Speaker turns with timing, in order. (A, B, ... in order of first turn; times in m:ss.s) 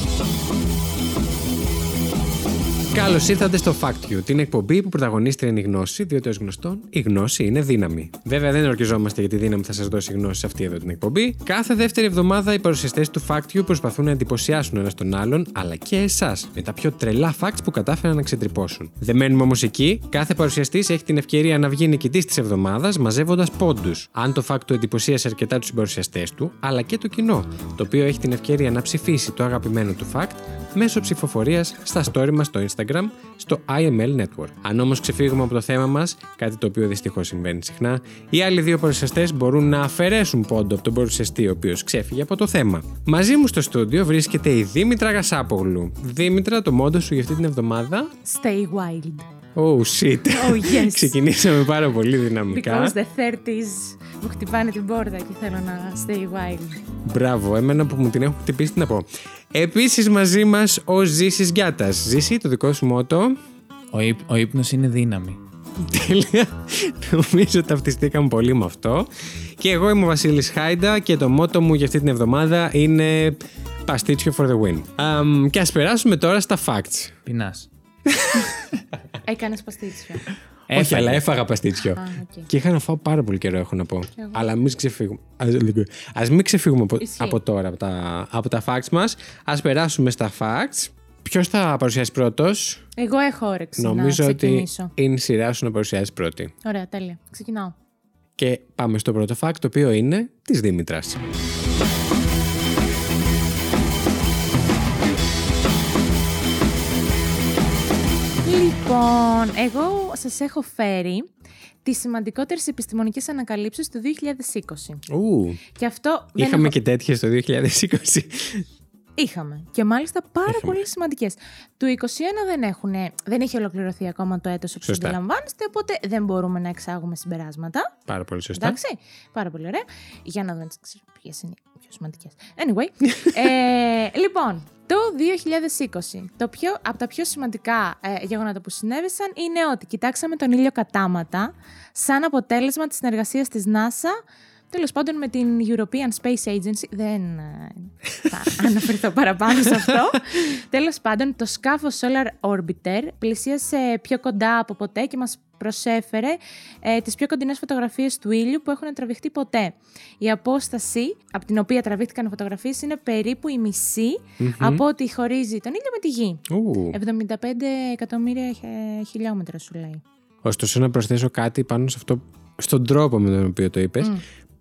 0:02.9-0:48.1 A
0:48.2-0:49.3 B
0:49.6-0:53.0 A
0:50.3-0:51.2 B
0:52.5-0:56.8 B
0:57.0-1:03.4 A
1:03.9-1:05.4 C
1:05.8-1:17.2 A
1:17.3-1:17.7 C
1:18.1-1:18.5 A
1:19.2-1:20.3 B
1:20.7-1:21.2 C
1:20.7-1:32.8 A
1:21.8-1:22.5 B
1:24.2-1:24.4 B
1:27.0-1:27.4 B
1:33.0-1:34.9 B
1:33.8-1:36.5 A
1:36.6-1:37.7 B
1:38.4-1:41.3 A
1:48.4-1:51.3 B
1:51.8-1:55.0 B
1:55.1-1:55.6 A
1:55.7-1:56.7 B
1:56.4-1:58.7 A
1:59.2-2:07.9 B
2:00.5-2:00.8 A
2:04.8-2:05.2 A
2:08.1-2:08.8 A
2:08.6-2:24.2 B
2:24.7-2:50.0 B
2:44.4-2:44.8 A
2:46.5-2:47.0 A
2:50.4-2:54.2 A